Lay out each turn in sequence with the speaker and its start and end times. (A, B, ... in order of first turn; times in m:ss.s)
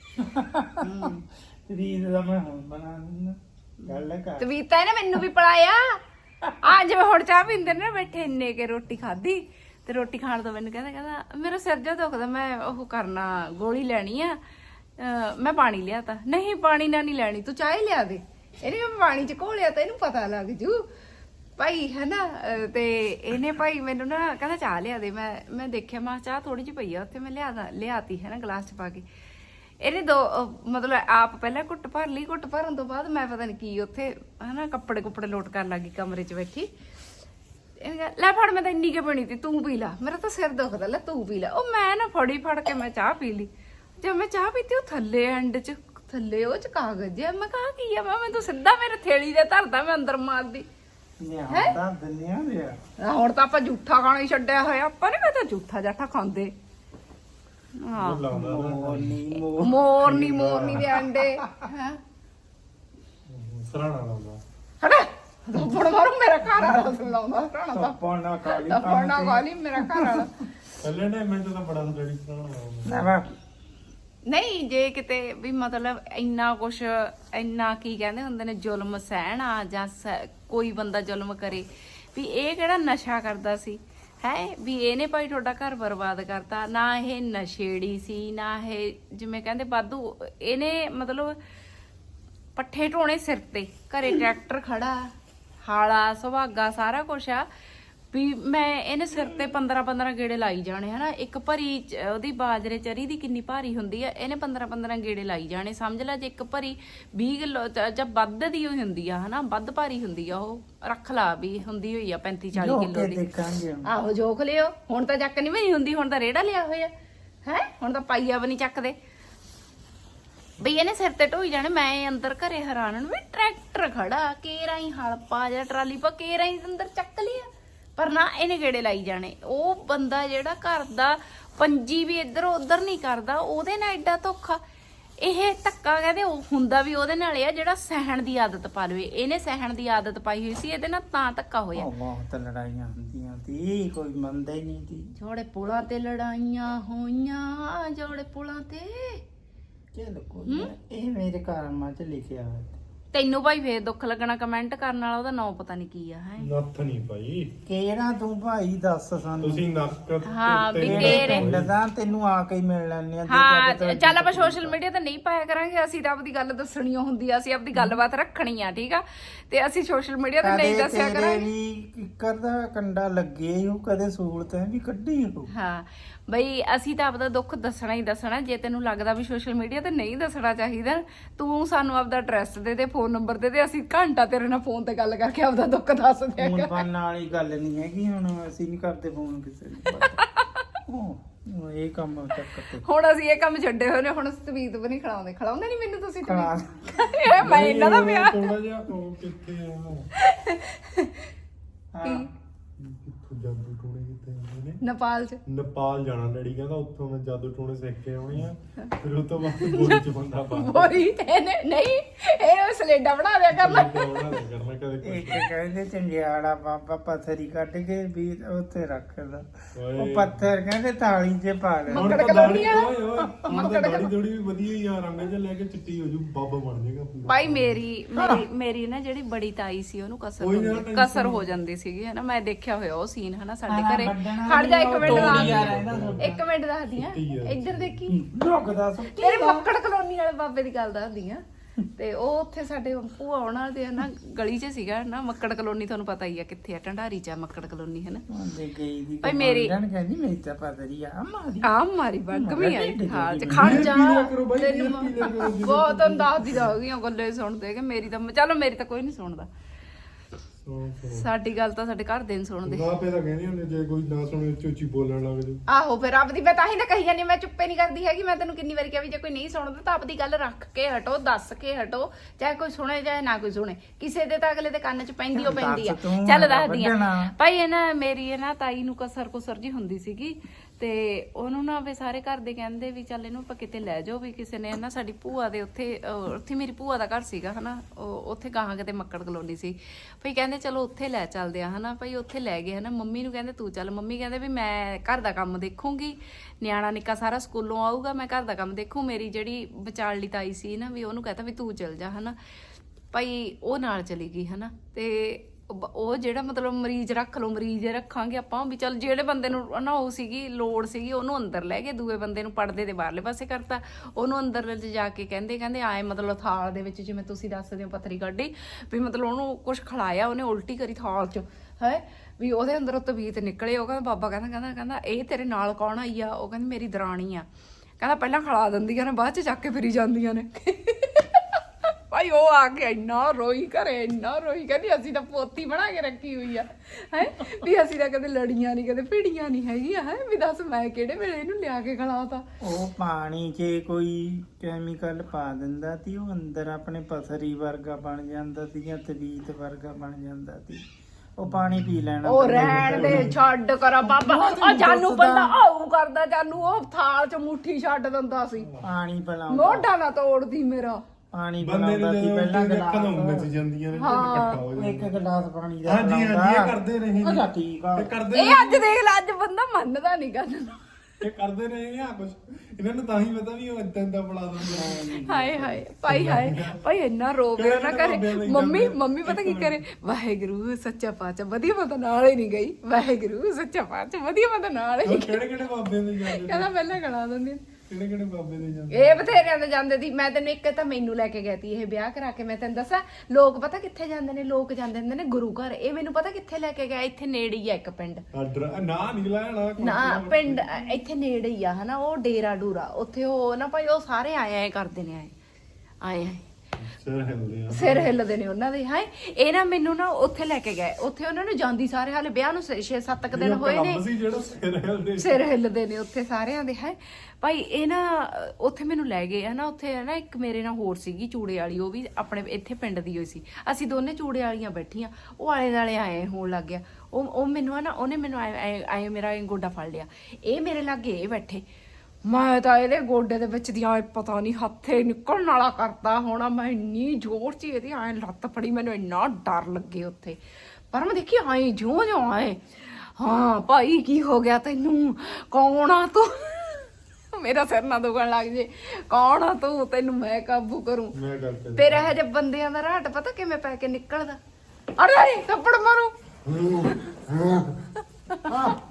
0:00.2-0:04.5 A
0:03.9-0:06.0 B
0:06.6-0:14.4 B
0:15.0-0:20.8 B
0:21.6-0:29.0 B
0:29.8-0:36.7 B
0:37.8-0:50.6 B
0:51.2-0:52.8 A
0:53.0-0:56.5 B
0:57.8-0:58.2 B
0:57.9-0:59.2 C
0:58.3-0:59.9 A
0:59.6-1:02.0 B
1:00.0-1:01.0 C
1:03.3-1:04.4 C
1:04.8-1:08.0 B
1:06.6-1:07.0 A
1:07.7-1:10.2 A
1:08.5-1:10.4 B
1:10.8-1:13.1 C
1:12.8-1:13.3 A
1:14.2-1:31.4 B
1:32.6-1:35.1 B
1:35.6-1:37.5 B
1:38.1-1:53.2 B
1:52.5-1:53.9 A
1:53.8-1:56.9 B
1:57.4-1:58.9 B
2:00.6-2:14.6 B
2:15.2-2:21.9 B
2:21.7-2:25.1 A
2:25.2-2:29.2 B
2:29.9-2:32.8 A
2:33.1-2:36.5 B
2:36.4-2:37.5 C
2:37.6-2:39.7 A
2:39.4-2:41.7 C
2:40.2-2:41.5 B
2:40.8-2:44.8 A
2:43.3-2:51.4 B
2:47.7-2:48.0 A
2:50.4-2:55.5 A
2:55.5-3:06.8 B
3:06.4-3:10.2 A
3:10.2-3:10.6 B
3:10.9-3:12.8 A
3:12.8-3:18.5 B
3:16.2-3:17.2 A
3:17.4-3:20.1 C
3:20.2-3:21.2 B
3:21.9-3:22.3 A
3:22.8-3:24.8 C
3:24.8-3:25.4 B
3:25.4-3:31.0 C
3:29.5-3:34.3 B
3:33.5-3:35.5 C
3:35.0-3:42.8 A
3:39.8-3:40.4 C
3:41.9-3:42.9 B
3:41.9-3:47.8 C
3:43.4-3:44.1 B
3:47.3-3:58.2 B
3:50.4-3:51.6 C
3:53.7-3:56.4 A
3:55.0-3:56.3 C
3:56.9-3:58.0 C
3:58.1-3:59.6 A
3:59.1-4:01.4 B
4:02.0-4:08.2 B
4:08.3-4:11.7 A
4:09.2-4:09.7 B
4:11.6-4:19.5 B
4:12.3-4:13.9 A
4:13.5-4:16.7 C
4:20.6-4:21.3 C
4:21.1-4:22.9 B
4:22.6-4:25.6 C
4:25.7-5:02.4 B
4:35.3-4:37.3 A
5:03.1-5:27.4 B
5:28.0-5:42.4 B
5:42.6-5:50.8 A
5:51.4-5:53.4 A
5:51.5-5:53.4 C
5:52.2-5:58.7 B
5:54.0-5:55.5 A
5:58.6-5:58.9 C
5:58.8-5:59.9 A
5:59.5-6:01.0 B
6:01.3-6:03.5 A
6:01.6-6:05.2 C
6:04.0-6:04.6 B
6:04.6-6:08.2 A
6:05.8-6:08.9 C
6:08.3-6:10.8 B
6:11.2-6:15.2 C
6:14.6-6:15.8 A
6:15.2-6:25.4 B
6:16.0-6:16.8 C
6:17.5-6:19.8 C
6:25.0-6:26.8 C
6:26.2-6:27.6 B
6:27.9-6:29.5 C
6:28.9-6:38.2 B
6:38.3-6:40.9 C
6:39.8-6:45.3 B
6:46.0-6:46.4 B
6:46.8-6:48.1 C
6:47.7-6:54.0 B
6:53.3-6:55.4 C
6:55.2-7:11.6 B
7:12.2-7:20.4 B
7:20.9-7:31.1 B
7:31.1-7:32.1 C
7:31.8-7:34.4 B
7:35.0-7:36.1 B
7:36.4-7:37.8 C
7:38.5-7:38.8 A